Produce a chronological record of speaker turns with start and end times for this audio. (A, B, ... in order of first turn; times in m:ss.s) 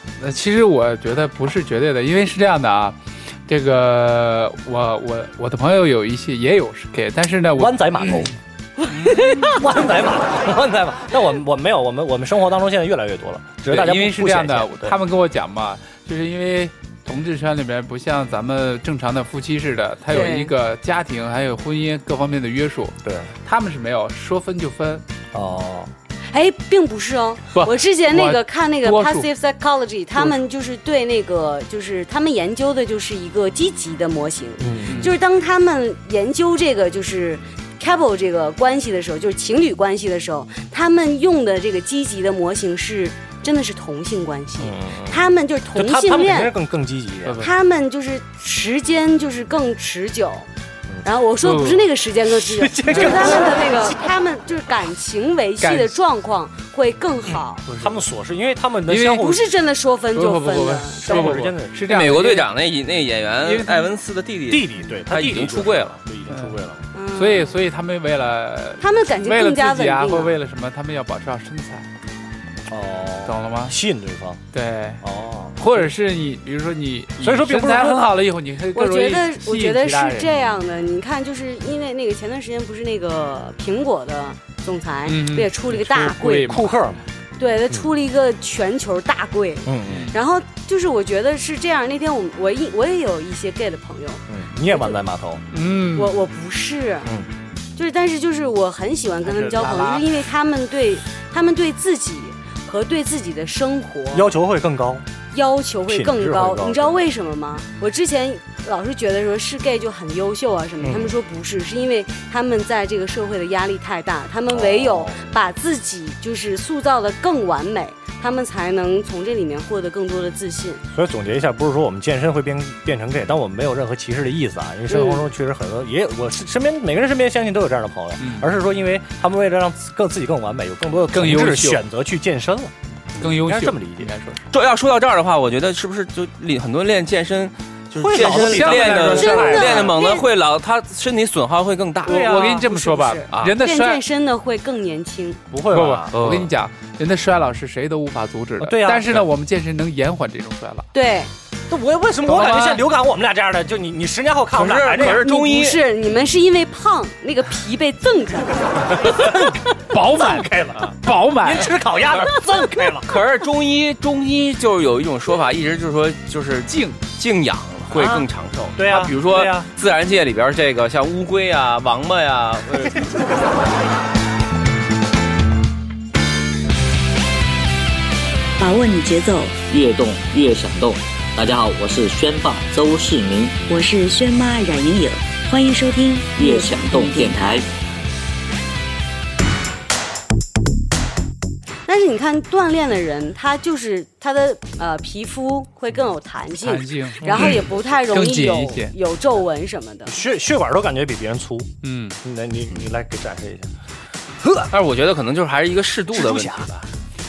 0:00.2-0:08.3 A
0:07.6-0:08.4 B
0:08.9-0:09.6 A
0:09.1-0:09.6 C
0:09.4-0:15.0 B
0:13.7-0:25.0 A
0:20.1-0:20.5 C
0:23.0-0:23.3 B
0:25.3-0:25.9 B
0:26.3-0:46.5 C
0:27.5-0:29.3 A
0:34.6-0:35.1 B
0:34.9-0:35.2 A
0:44.6-0:47.5 B
0:47.2-0:47.5 A
0:47.4-0:50.5 C
0:51.0-0:57.6 C
0:51.4-0:51.8 A
0:52.3-0:54.1 B
0:52.9-0:53.4 A
0:55.6-0:56.0 A
0:57.7-0:58.0 A
0:57.7-0:59.4 B
0:58.9-0:59.3 A
0:59.2-1:01.4 C
1:00.1-1:02.5 A
1:01.0-1:01.8 B
1:01.9-1:06.0 D
1:03.4-1:03.9 A
1:04.5-1:06.8 B
1:06.3-1:06.6 A
1:06.9-1:07.6 C
1:07.1-1:11.9 A
1:08.8-1:10.4 C
1:12.7-1:14.4 B
1:13.2-1:13.8 A
1:14.5-1:15.0 A
1:15.0-1:15.9 B
1:15.6-1:20.3 A
1:17.2-1:18.1 B
1:18.7-1:26.6 C
1:25.1-1:26.8 A
1:26.4-1:27.0 B
1:27.4-1:35.0 C
1:29.6-1:30.1 B
1:34.3-1:35.4 B
1:35.5-1:36.2 A
1:35.9-1:37.1 C
1:37.0-1:37.3 B
1:37.8-1:44.3 C
1:39.3-1:39.9 B
1:39.4-1:40.0 A
1:44.1-1:45.0 B
1:45.3-2:00.8 C
1:45.9-1:47.0 B
1:50.8-1:51.2 B
1:54.5-1:55.3 B
2:00.9-2:14.1 B
2:04.9-2:05.2 C
2:08.2-2:08.5 A
2:11.1-2:11.8 A
2:13.2-2:14.4 A
2:14.5-2:22.3 D
2:18.0-2:19.9 B
2:18.2-2:19.7 A
2:19.2-2:20.2 C
2:22.0-2:22.7 B
2:22.1-2:24.0 A
2:22.1-2:25.4 C
2:23.3-2:23.6 D
2:25.5-2:26.1 B
2:25.7-2:30.9 A
2:26.1-2:26.5 D
2:28.6-2:29.2 B
2:30.9-2:31.3 C
2:31.7-2:35.3 B
2:32.2-2:32.8 A
2:34.5-2:35.8 D
2:35.0-2:39.6 C
2:39.0-2:39.5 B
2:39.9-2:41.8 A
2:40.1-2:43.1 B
2:43.0-2:53.2 D
2:46.7-2:47.0 A
2:47.9-2:49.7 B
2:58.6-2:59.8 E
2:59.7-3:03.5 F
3:03.5-3:07.6 E
3:06.4-3:07.6 F
3:11.9-3:20.2 C
3:16.6-3:18.9 A
3:17.2-3:17.6 B
3:20.0-3:21.7 B
3:21.8-3:22.2 A
3:22.2-3:23.7 B
3:24.4-3:24.7 B
3:24.7-3:26.9 D
3:26.1-3:26.7 B